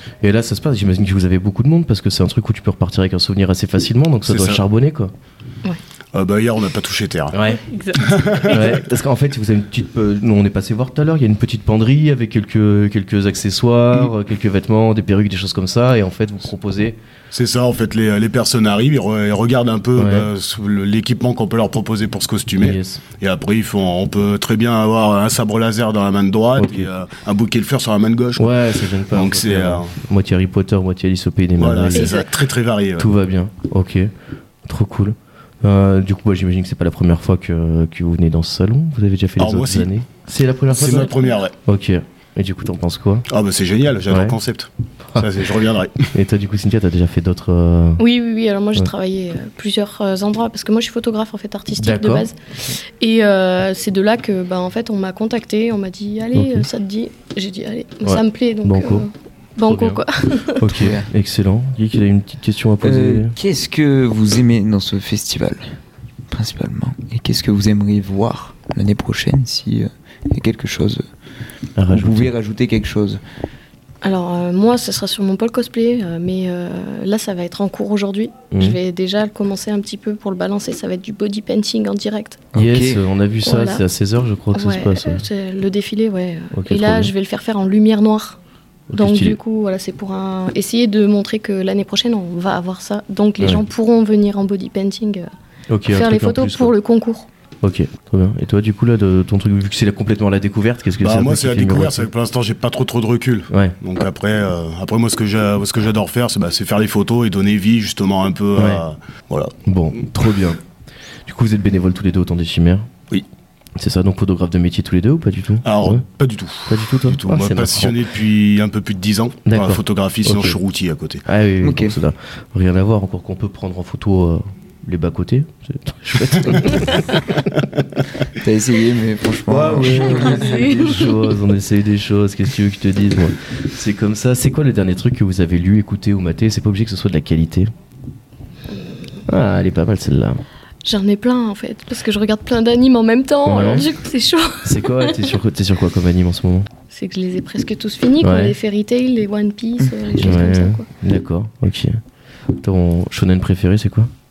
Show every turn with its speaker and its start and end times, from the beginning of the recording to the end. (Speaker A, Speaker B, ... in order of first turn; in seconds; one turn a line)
Speaker A: 0.2-5.1
Speaker B: 4.3-4.6
Speaker B: 6.1-7.3
Speaker A: 7.3-7.7
Speaker C: 7.4-8.6
Speaker A: 8.4-17.0
Speaker B: 17.3-28.5
Speaker A: 20.0-20.3
Speaker A: 22.6-23.0
Speaker A: 26.6-26.9
Speaker A: 28.4-32.2
Speaker B: 29.1-29.9
Speaker B: 31.6-33.1
Speaker C: 31.9-32.3
Speaker A: 33.0-34.1
Speaker A: 34.6-43.3
Speaker B: 39.4-39.9
Speaker B: 40.7-41.5
Speaker C: 40.9-41.4
Speaker B: 43.3-46.1
Speaker A: 44.1-44.4
Speaker A: 46.1-48.0
Speaker C: 48.0-52.4
Speaker A: 51.8-52.3
Speaker C: 53.0-60.6
Speaker A: 56.3-56.7
Speaker A: 58.0-59.1
Speaker A: 59.6-60.0
Speaker A: 60.6-63.4
Speaker D: 60.7-61.1
Speaker D: 62.8-65.8
Speaker D: 66.3-71.0
Speaker A: 71.8-72.3
Speaker D: 71.9-73.2
Speaker C: 74.0-82.4
Speaker A: 78.5-78.8
Speaker D: 82.5-83.0
Speaker A: 82.5-85.3
Speaker C: 83.4-83.8
Speaker C: 84.5-88.4
Speaker A: 86.5-87.1
Speaker A: 88.9-89.4
Speaker C: 88.9-95.3
Speaker A: 93.4-93.6
Speaker A: 95.7-96.7
Speaker C: 95.9-97.3
Speaker A: 97.6-102.1
Speaker B: 101.0-109.5
Speaker A: 103.5-103.8
Speaker A: 108.6-108.8
Speaker A: 109.7-110.6
Speaker A: 111.3-112.9
Speaker A: 113.8-116.0
Speaker B: 115.6-121.2
Speaker A: 116.7-118.0
Speaker A: 119.5-120.6
Speaker A: 121.3-127.4
Speaker D: 121.6-122.0
Speaker D: 128.4-130.5
Speaker A: 129.5-137.7
Speaker C: 130.0-131.1
Speaker A: 139.3-140.4
Speaker C: 140.8-145.3
Speaker A: 143.4-143.9
Speaker A: 144.6-146.7
Speaker C: 146.9-150.9
Speaker A: 148.2-148.6
Speaker A: 150.2-152.0
Speaker A: 152.6-154.1